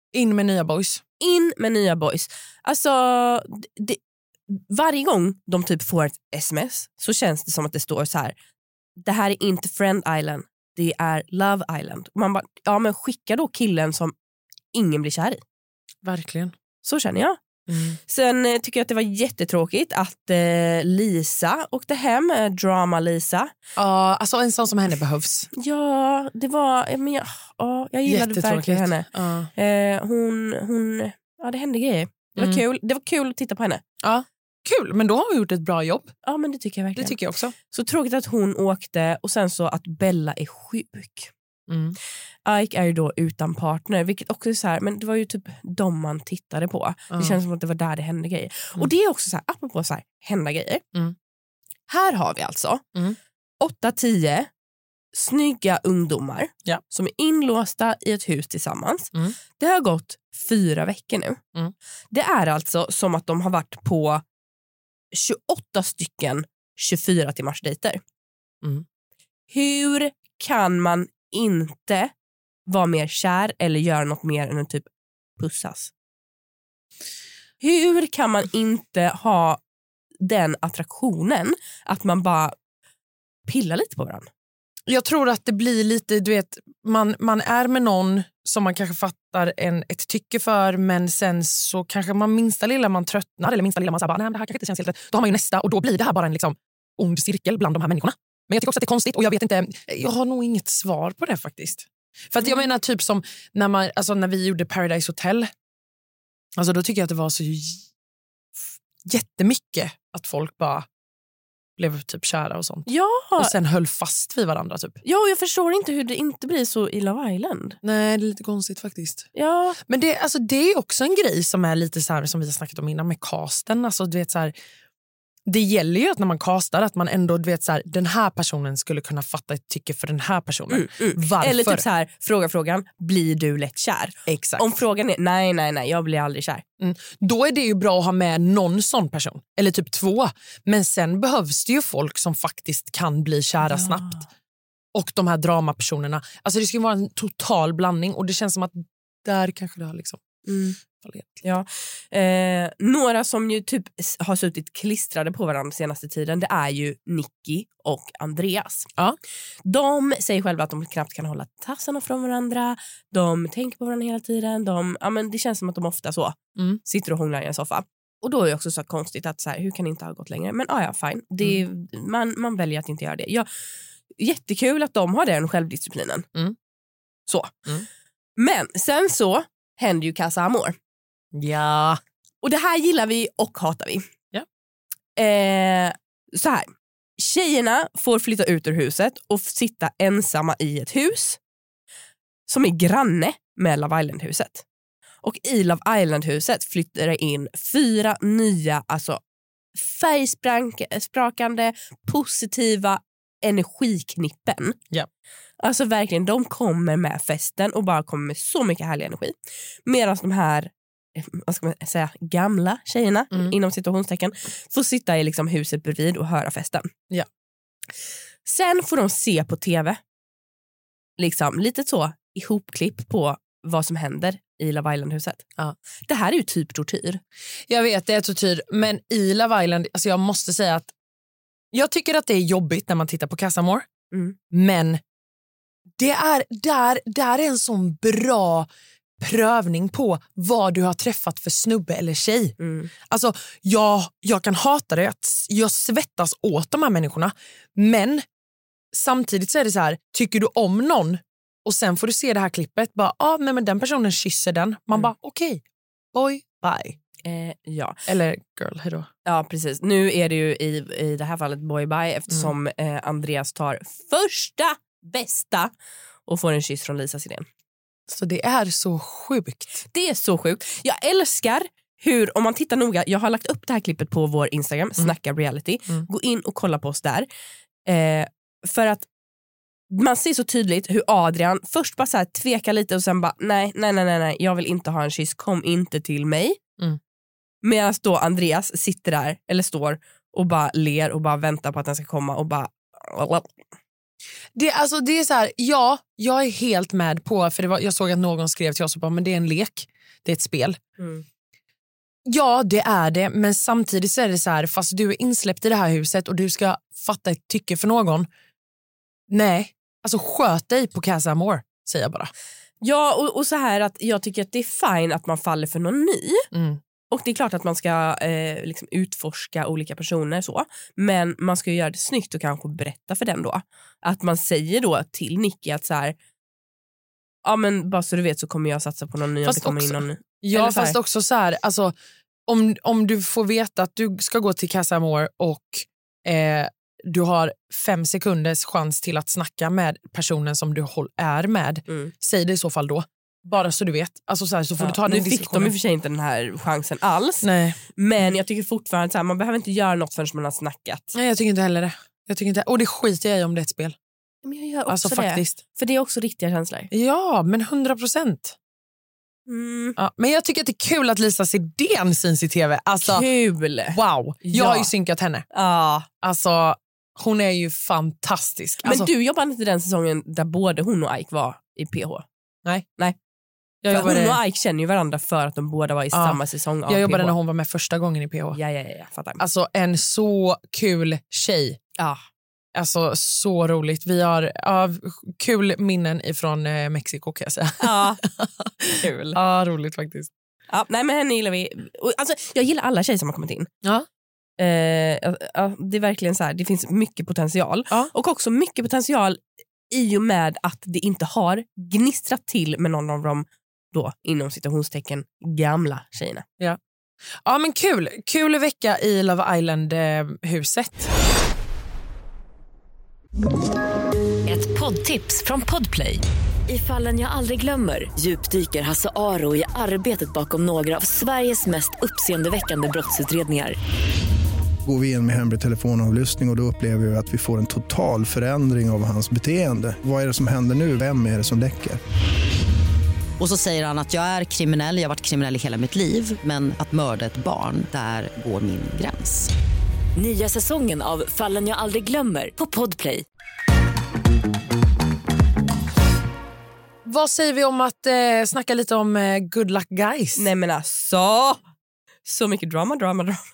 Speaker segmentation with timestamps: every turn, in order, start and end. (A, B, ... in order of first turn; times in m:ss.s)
0:00.1-0:01.0 A
0:01.2-0:08.4 B
0:09.0-0:14.1 B
0:14.7-0:15.4 B
0:16.0-0:16.5 A
0:16.8-0:17.4 B
0:17.7-0:18.0 A
0:18.1-0:23.5 B
0:23.8-0:25.5 A
0:25.5-0:33.8 B
0:28.1-0:29.5 A
0:32.4-0:32.6 A
0:34.0-0:36.1 A
0:36.2-0:41.3 B
0:37.0-0:37.5 A
0:41.7-0:42.0 A
0:42.4-0:50.8 B
0:51.9-0:52.8 B
0:53.6-0:54.5 B
0:55.1-1:01.4 B
1:02.1-1:04.2 B
1:05.1-1:08.0 B
1:09.5-1:12.1 B
1:12.7-1:14.9 B
1:15.4-1:15.9 B
1:17.6-1:19.6 B
1:20.2-1:22.6 B
1:23.5-1:24.3 B
1:24.9-1:45.5 A
1:46.6-1:47.9 A
1:48.6-1:50.9 A
1:51.8-1:55.0 A
1:52.9-1:53.5 B
1:55.0-1:57.8 B
1:57.8-1:59.3 A
1:59.4-1:59.8 B
1:59.8-2:04.5 A
2:05.5-2:11.9 A
2:10.7-2:16.6 B
2:14.3-2:14.8 A
2:16.8-2:24.2 A
2:23.6-2:24.2 B
2:24.9-2:30.2 A
2:30.5-2:30.8 B
2:30.9-2:31.4 A
2:31.4-2:38.9 B
2:39.6-2:53.5 B
2:54.2-2:56.2 B
2:57.3-2:57.6 B
2:58.4-3:00.8 B
3:01.3-3:02.0 A
3:02.4-3:04.0 B
3:05.2-3:11.4 B
3:12.5-3:14.6 B
3:15.2-3:19.2 B
3:19.8-3:24.8 B
3:25.6-3:29.4 B
3:29.9-3:36.9 B
3:38.4-3:40.0 B
3:41.2-3:45.4 B
3:46.1-3:47.2 B
3:47.7-3:50.9 A
3:51.7-3:53.9 A
3:54.1-3:54.4 B
3:54.5-3:55.0 A
3:56.0-4:08.2 A
4:02.6-4:02.9 B
4:08.9-4:15.6 A
4:16.1-4:17.0 A
4:17.2-4:18.0 B
4:18.1-4:19.1 A
4:19.2-4:25.7 B
4:26.2-4:27.5 B
4:28.1-4:29.8 A
4:29.9-4:37.3 B
4:37.9-4:39.1 B
4:39.9-4:46.6 B
4:47.6-4:53.5 B
4:54.6-5:00.8 A
5:01.0-5:01.2 B
5:02.2-5:08.3 A
5:09.3-5:12.3 A
5:12.8-5:16.5 B
5:16.5-5:16.8 A
5:17.1-5:26.1 B
5:27.4-5:31.0 B
5:29.4-5:31.9 A
5:32.5-5:45.7 A
5:44.8-5:51.1 B
5:47.4-5:47.8 A
5:51.1-5:54.0 A
5:54.4-5:56.9 B
5:54.9-5:55.6 A
5:56.9-5:58.6 A
5:59.5-6:00.0 B
6:00.0-6:03.3 A
6:03.0-6:04.9 B
6:03.9-6:05.4 A
6:05.5-6:06.1 B
6:06.2-6:09.1 A
6:08.8-6:12.2 B
6:13.8-6:14.4 A
6:13.9-6:17.4 B
6:16.1-6:18.6 A
6:18.5-6:19.4 B
6:19.4-6:21.8 A
6:22.8-6:30.3 A
6:27.8-6:28.2 B
6:29.0-6:29.4 B
6:30.7-6:33.7 B
6:34.6-6:46.4 B
6:47.4-6:51.1 A
6:54.5-7:03.8 C
7:04.8-7:12.0 D
7:13.4-7:19.5 E
7:20.2-7:23.2 C
7:27.0-7:30.5 A
7:30.4-7:31.6 B
7:32.2-7:33.4 B